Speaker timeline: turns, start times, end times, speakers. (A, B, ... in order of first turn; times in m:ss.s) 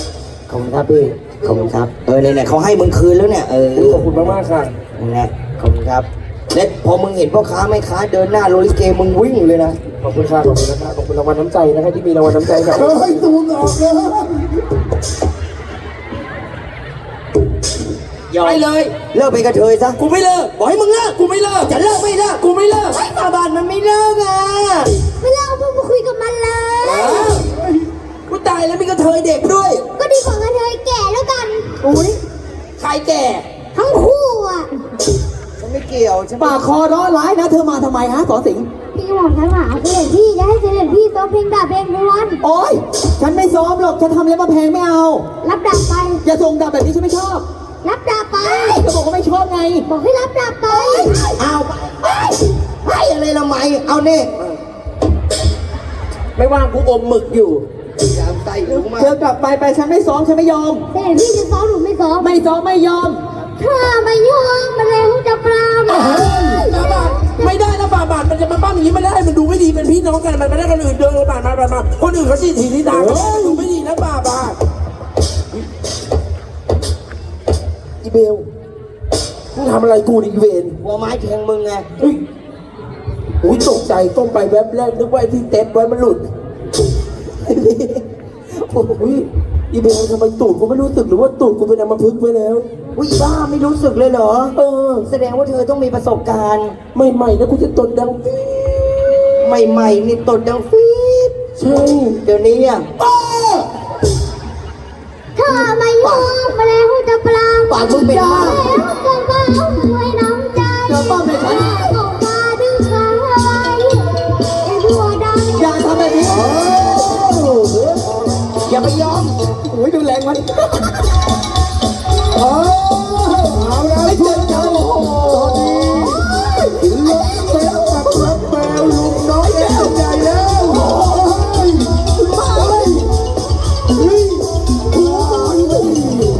0:00.5-0:04.4 A
0:03.8-0:04.8 B
0:05.0-0:09.8 A
0:10.0-0:14.3 B
0:18.3-0:20.0 A
0:18.4-0:19.0 B
0:20.0-0:21.8 B
0:21.6-0:25.0 A
0:22.4-0:23.0 B
0:25.2-0:27.4 C
0:26.8-0:27.4 A
0:26.8-0:27.7 B
0:28.3-0:29.9 B
0:30.0-0:31.8 C
0:31.8-0:32.2 D
0:32.8-0:33.5 B
0:33.7-0:34.7 C
0:35.6-0:36.7 A
0:36.4-0:38.7 D
0:39.0-0:42.4 C
0:42.4-0:45.2 D
0:45.4-0:46.2 C
0:46.2-0:47.5 D
0:47.8-0:48.8 C
0:48.4-0:49.9 D
0:49.9-0:51.3 C
0:50.7-0:54.6 A
0:56.4-0:57.7 B
0:58.0-0:59.1 A
0:58.7-1:00.9 D
1:00.9-1:02.4 C
1:02.2-1:03.2 D
1:03.6-1:07.6 C
1:05.9-1:14.6 B
1:18.0-1:18.5 B
1:19.5-1:20.8 B
1:20.8-1:21.9 A
1:23.4-1:26.2 B
1:27.5-1:28.0 A
1:28.6-1:29.1 A
1:29.0-1:32.7 B
1:33.0-1:36.8 A
1:34.6-1:35.1 B
1:36.9-1:39.6 B
1:39.4-1:41.4 A
1:41.6-1:42.2 B
1:42.2-1:42.9 A
1:43.1-1:43.5 B
1:45.4-1:56.4 C
1:46.0-1:46.3 A
1:47.7-1:48.7 A
1:48.0-1:48.6 D
1:50.9-1:51.9 D
1:55.6-1:56.6 D
1:56.3-1:57.6 B
1:58.6-1:59.4 A
1:59.7-2:00.9 D
2:02.6-2:02.9 E
2:03.4-2:04.4 B
2:03.7-2:04.9 E
2:04.0-2:06.3 D
2:05.4-2:06.0 E
2:06.0-2:06.8 C
2:06.9-2:10.9 B
2:07.1-2:08.3 E
2:09.7-2:10.9 E
2:12.1-2:13.0 D
2:15.0-2:16.0 B